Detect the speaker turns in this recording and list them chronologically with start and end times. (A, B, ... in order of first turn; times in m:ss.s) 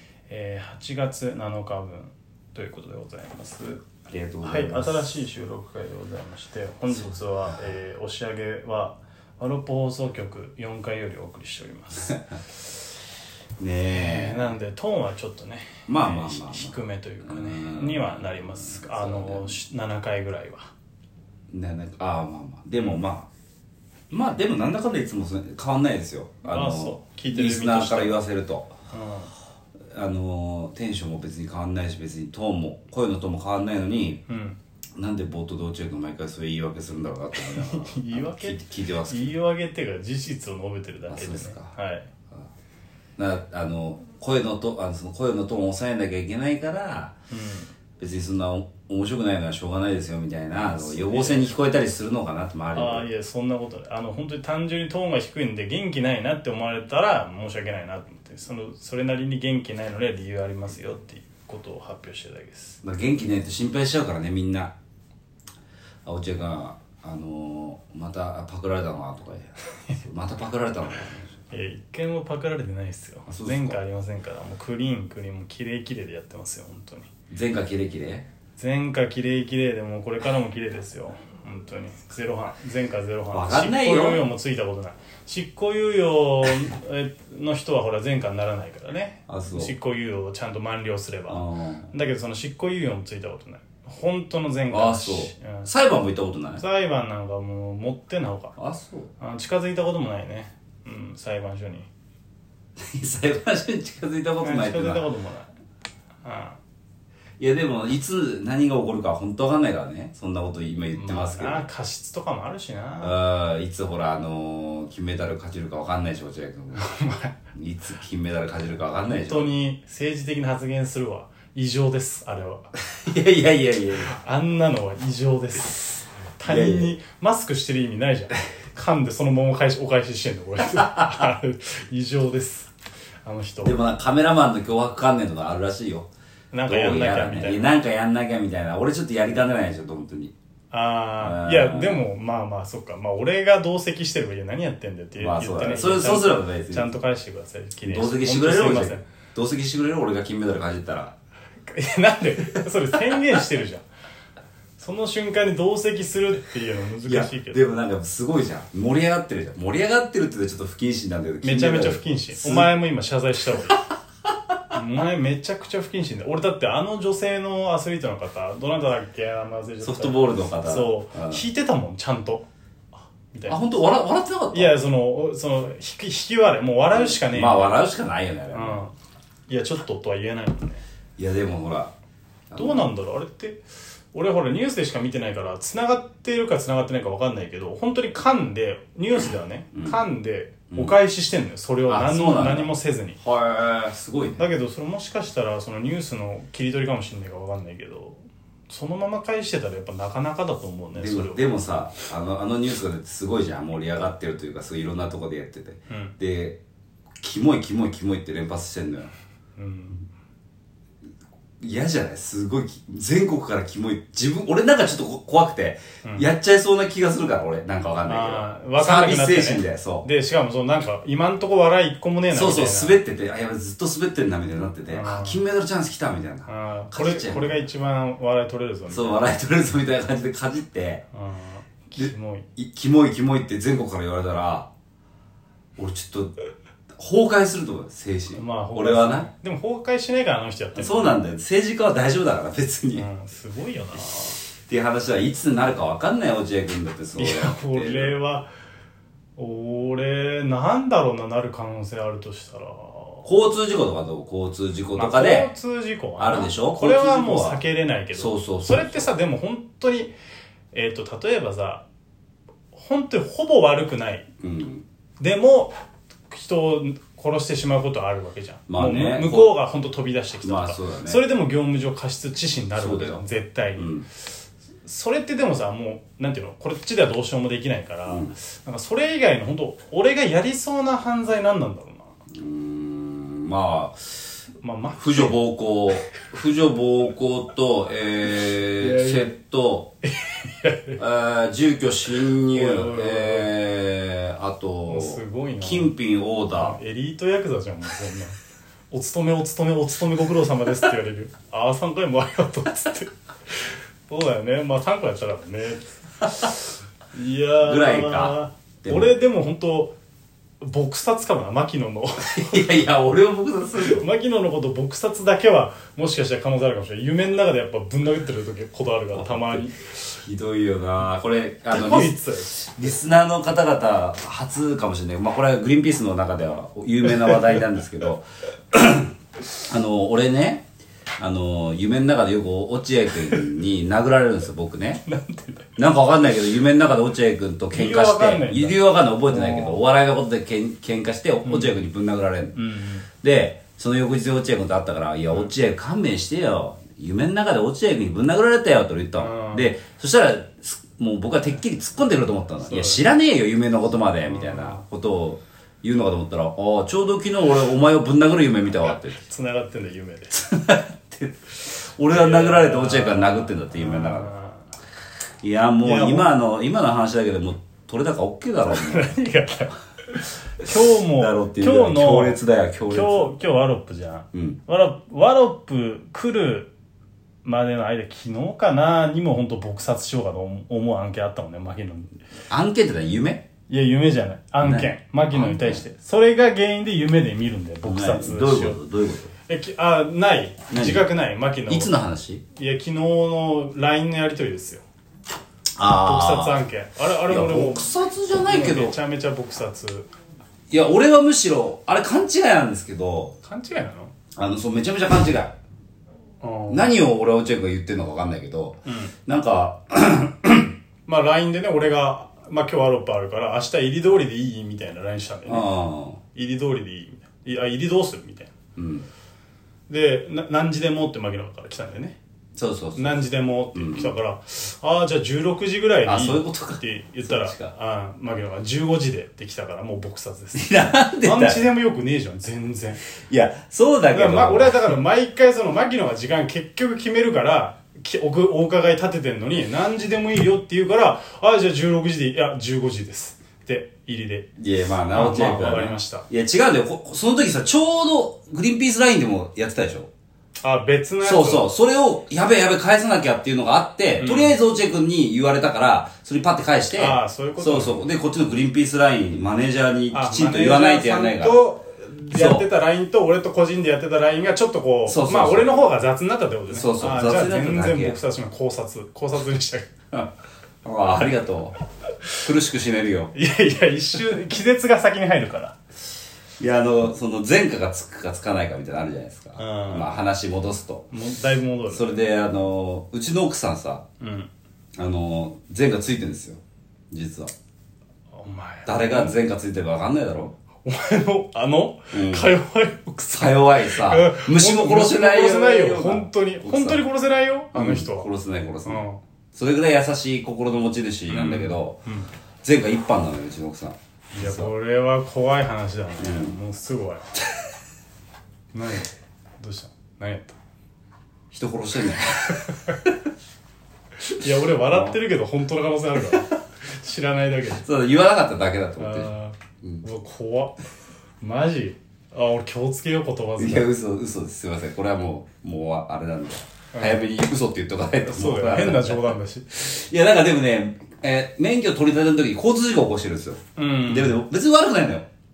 0:00.3-0:03.8 A
0:04.1-0:05.0 B
0:04.4-0:12.3 A
0:06.9-0:07.2 B
0:13.6-0:14.5 B
0:13.9-0:20.7 A
0:15.9-0:19.6 B
0:21.5-0:23.3 B
0:24.1-0:28.7 B
0:26.4-0:28.2 A
0:28.9-0:29.3 A
0:29.9-0:34.2 B
0:34.3-0:34.6 A
0:35.0-0:39.3 B
0:37.4-0:42.1 A
0:41.1-0:41.7 B
0:43.2-0:47.1 B
0:47.3-0:47.7 A
0:48.0-0:53.0 B
0:50.7-0:51.5 A
0:52.7-1:02.8 A
1:02.8-1:04.7 B
1:06.0-1:11.3 B
1:11.5-1:17.1 A
1:13.3-1:13.8 B
1:17.3-1:18.2 B
1:18.6-1:35.7 A
1:23.3-1:24.2 B
1:29.3-1:29.7 B
1:31.3-1:31.9 B
1:34.7-1:36.6 B
1:36.6-1:38.5 A
1:38.6-1:39.1 B
1:39.2-1:41.9 A
1:42.8-1:45.1 B
1:44.4-1:45.5 A
1:46.2-1:46.6 A
1:47.4-1:51.6 B
1:50.9-1:53.1 A
1:53.0-1:56.9 B
1:56.7-1:57.3 A
1:57.5-1:59.5 B
1:59.1-2:02.7 A
2:02.9-2:04.2 B
2:04.1-2:12.7 A
2:06.4-2:07.0 B
2:10.6-2:11.3 B
2:13.2-2:13.8 A
2:13.6-2:16.1 B
2:16.5-2:17.7 A
2:16.6-2:20.3 B
2:20.7-2:29.0 A
2:21.2-2:22.0 B
2:25.2-2:26.9 B
2:27.8-2:31.1 B
2:31.6-2:33.8 A
2:34.8-2:37.6 A
2:37.0-2:42.7 B
2:41.4-2:43.8 A
2:44.7-2:52.4 A
2:49.8-2:51.4 B
2:53.1-2:53.7 A
2:53.5-2:54.8 B
2:54.5-2:57.8 A
2:56.9-2:58.8 B
2:58.5-2:58.9 A
2:59.5-3:00.8 A
3:01.2-3:01.9 B
3:02.5-3:02.9 B
3:02.6-3:03.6 A
3:04.1-3:13.2 A
3:09.7-3:10.0 B
3:10.7-3:11.0 B
3:11.9-3:14.4 B
3:14.4-3:21.4 A
3:21.0-3:26.6 B
3:25.9-3:26.1 A
3:27.2-3:29.1 B
3:29.6-3:30.0 A
3:31.6-3:40.1 B
3:38.0-3:43.0 A
3:42.3-3:47.6 B
3:44.9-3:45.4 A
3:46.4-3:49.2 A
3:48.9-3:51.0 B
3:51.1-3:52.5 A
3:52.0-3:54.7 B
3:55.8-3:56.3 B
3:57.0-3:59.3 B
3:58.3-4:01.2 A
4:00.7-4:03.1 B
4:03.0-4:04.4 A
4:04.0-4:08.1 B
4:07.1-4:08.5 A
4:09.4-4:13.3 A
4:13.2-4:15.5 B
4:14.9-4:20.1 A
4:16.2-4:17.6 B
4:18.1-4:19.1 B
4:20.7-4:21.8 A
4:22.7-4:24.2 A
4:24.4-4:24.8 B
4:25.2-4:25.8 A
4:26.3-4:33.9 A
4:28.7-4:29.5 B
4:30.4-4:31.2 B
4:32.8-4:33.2 B
4:33.8-4:34.0 B
4:34.8-4:42.1 A
4:38.1-4:38.3 B
4:42.3-4:44.4 B
4:44.6-4:45.4 A
4:45.0-4:49.9 B
4:48.8-4:49.3 A
4:50.0-4:51.0 A
4:51.0-4:56.8 B
4:52.2-4:53.5 A
4:54.9-4:55.9 A
4:56.6-4:58.4 A
4:58.9-5:06.6 A
5:07.1-5:09.9 A
5:07.6-5:09.2 B
5:10.6-5:12.6 A
5:12.2-5:14.0 B
5:13.8-5:19.8 A
5:19.1-5:30.6 B
5:21.7-5:22.7 A
5:31.2-5:35.0 B
5:35.0-5:35.7 A
5:35.8-5:42.6 B
5:37.7-5:39.8 A
5:41.4-5:41.7 A
5:42.5-5:43.0 A
5:43.2-5:59.2 B
5:49.2-5:49.7 A
5:52.6-5:53.0 A
5:54.2-5:54.8 A
5:59.1-6:00.3 A
6:00.3-6:04.3 B
6:02.1-6:04.7 A
6:05.4-6:09.1 B
6:05.8-6:06.3 A
6:08.7-6:12.4 A
6:11.0-6:13.3 B
6:12.9-6:16.7 A
6:14.3-6:14.6 B
6:17.4-6:22.2 A
6:22.5-6:23.4 B
6:23.7-6:28.8 A
6:24.6-6:25.8 B
6:27.8-6:29.3 B
6:29.5-6:31.9 A
6:30.7-6:31.1 B
6:31.7-6:32.4 B
6:32.5-6:34.8 A
6:35.8-6:36.6 B
6:36.0-6:40.1 A
6:37.2-6:39.0 B
6:40.7-6:43.3 B
6:43.4-6:44.1 A
6:44.4-6:45.5 B
6:46.4-6:46.9 A
6:46.7-6:50.7 B
6:48.8-6:49.1 A
6:51.0-6:55.7 A
6:55.4-6:56.2 B
6:56.3-6:58.5 A
6:58.8-6:59.1 B
6:59.9-7:02.2 A
7:02.6-7:04.1 B
7:03.0-7:13.0 A
7:06.0-7:07.7 B
7:10.5-7:11.6 B
7:13.2-7:14.9 B
7:14.1-7:24.5 A
7:24.6-7:30.1 B
7:25.1-7:26.2 A
7:30.6-7:31.6 A
7:31.2-7:41.6 B
7:34.2-7:34.6 A
7:37.0-7:38.0 A
7:40.1-7:49.9 A
7:42.3-7:42.7 B
7:45.0-7:45.7 B
7:46.7-7:48.2 B
7:50.8-7:51.7 B
7:52.4-7:53.3 B
7:53.3-7:55.8 A
7:56.6-8:01.1 B
7:59.6-8:00.1 A
8:01.1-8:02.1 A
8:01.9-8:04.0 B
8:04.2-8:04.5 A
8:05.0-8:06.6 B
8:07.1-8:07.5 B
8:08.3-8:09.4 A
8:08.8-8:10.5 B
8:10.8-8:18.3 A
8:12.1-8:12.5 B
8:13.3-8:17.0 B
8:17.7-8:22.0 B
8:18.8-8:19.2 A
8:21.3-8:22.3 A
8:22.6-8:24.7 B
8:24.3-8:27.3 A
8:26.2-8:26.6 B
8:28.7-8:30.6 A
8:31.5-8:33.1 B
8:34.2-8:37.8 A
8:34.8-8:35.2 B
8:37.8-8:39.3 B
8:39.0-8:40.8 A
8:41.4-8:43.9 A
8:43.6-8:55.3 B
8:46.9-8:47.2 A
8:48.2-8:49.8 A
8:53.8-8:54.4 A